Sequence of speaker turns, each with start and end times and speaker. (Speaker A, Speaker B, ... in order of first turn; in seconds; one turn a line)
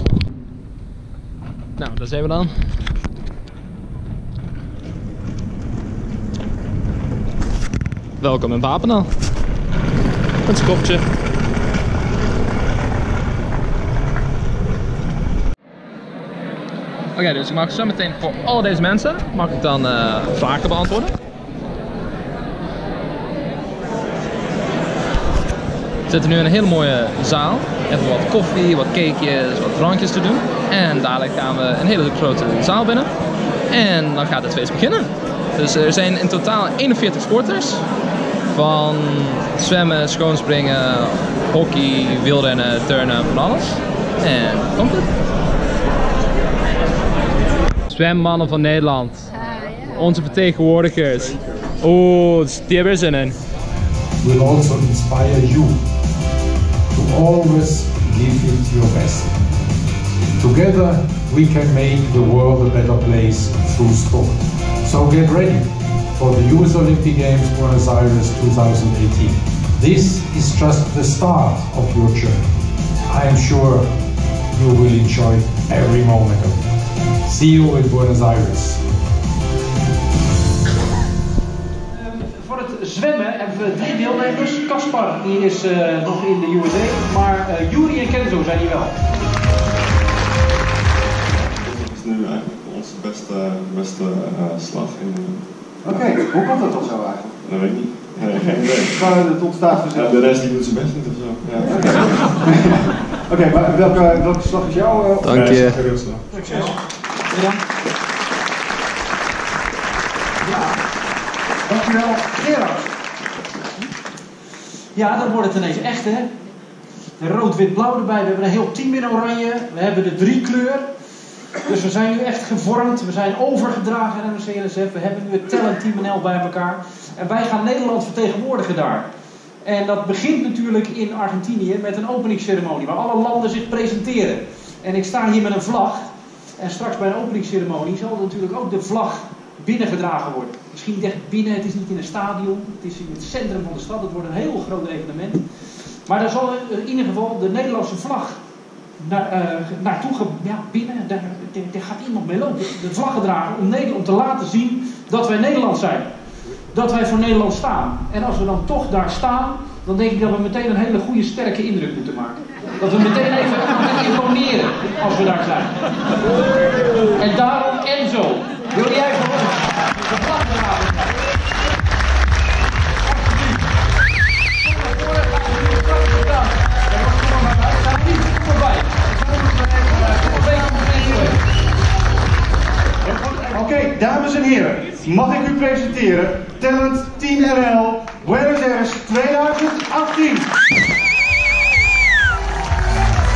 Speaker A: 1.8-2.5
Speaker A: 8.2-9.1
Speaker A: 10.5-11.1
Speaker A: 17.2-21.1
Speaker A: 26.1-33.1
Speaker A: 33.7-37.9
Speaker A: 38.5-45.1
Speaker A: 47.9-49.3
Speaker A: 49.9-53.4
Speaker B: 54.2-55.8
Speaker B: 56.9-59.3
Speaker B: 60.4-72.4
Speaker B: 73.1-73.9
Speaker B: 74.5-76.7
Speaker B: 77.2-78.8
Speaker C: 81.9-88.9
Speaker D: 91.3-96.2
Speaker E: 95.8-97.3
Speaker D: 97.4-99.2
Speaker E: 98.5-100.3
Speaker D: 99.8-103.0
Speaker E: 101.6-102.6
Speaker E: 103.3-105.5
Speaker D: 105.1-106.2
Speaker A: 105.2-105.8
Speaker C: 106.3-106.8
Speaker C: 107.3-107.6
Speaker C: 110.4-110.8
Speaker E: 111.7-112.4
Speaker C: 111.9-112.9
Speaker C: 115.0-116.3
Speaker C: 117.2-120.8
Speaker C: 121.7-129.1
Speaker C: 129.6-136.0
Speaker C: 136.6-145.4
Speaker C: 146.1-148.4
Speaker C: 149.0-156.1
Speaker C: 156.7-165.8
Speaker C: 167.2-171.1
Speaker C: 173.0-173.7
Speaker C: 174.6-179.1
Speaker E: 179.1-181.3
Speaker C: 179.8-181.4
Speaker E: 183.1-190.5